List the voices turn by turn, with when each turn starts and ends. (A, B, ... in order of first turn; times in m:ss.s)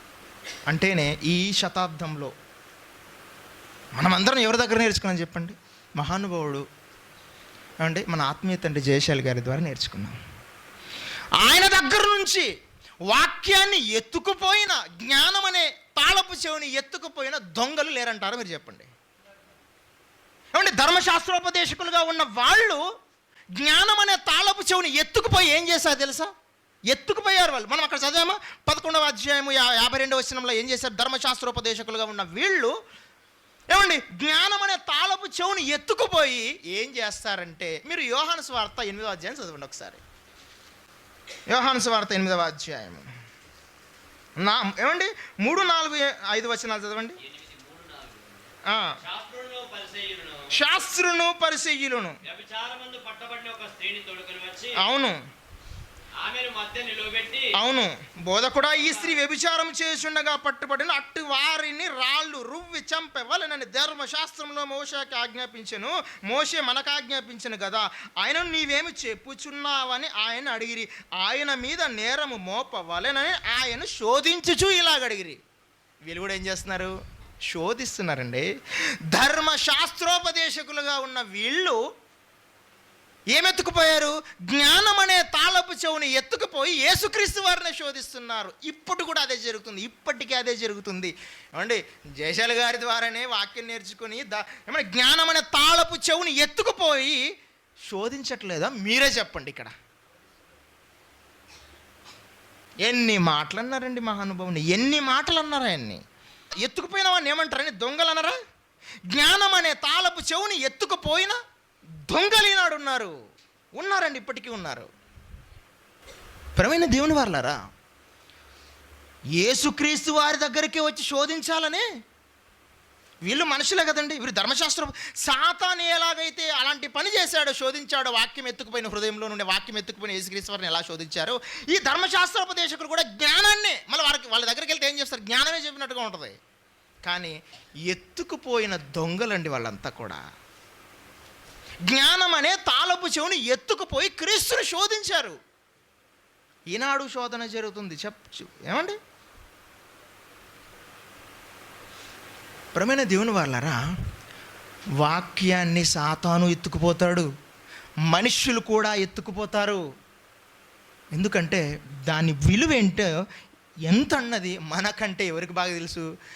0:00.7-0:02.3 A
0:04.0-0:06.6 A
0:07.8-0:10.2 A
0:11.4-0:12.5 A
0:13.1-0:18.9 A
0:20.5-0:22.8 A
0:23.6-0:26.3 A
0:26.9-0:32.7 A
0:33.7-0:40.0 A
0:41.5-0:43.1 A
0:44.4-0:47.2 A
0:47.2-0:50.5 B
0:48.6-0:49.0 A
0:50.5-0:52.2 A
0:52.2-0:54.8 B
0:54.8-0:55.2 A
0:56.2-0:57.5 B
0:57.5-1:15.4 A
0:58.7-0:59.2 B
1:16.0-1:16.9 A
1:17.5-1:18.5 A
1:19.1-1:21.8 A
1:23.3-1:37.2 A
1:37.9-1:39.7 A
1:42.8-1:46.0 A
1:46.6-1:48.4 A
1:49.1-1:51.4 A
1:52.1-1:53.1 A
1:53.8-1:54.9 A
1:56.6-1:57.6 A
1:59.4-2:01.8 A
2:03.2-2:16.4 A
2:17.0-2:17.4 A
2:17.9-2:20.2 A
2:21.9-2:25.4 A
2:26.7-2:29.0 A
2:32.7-2:33.8 A
2:35.0-2:37.3 A
2:38.1-2:39.8 A
2:41.1-2:43.1 A
2:43.9-2:46.1 A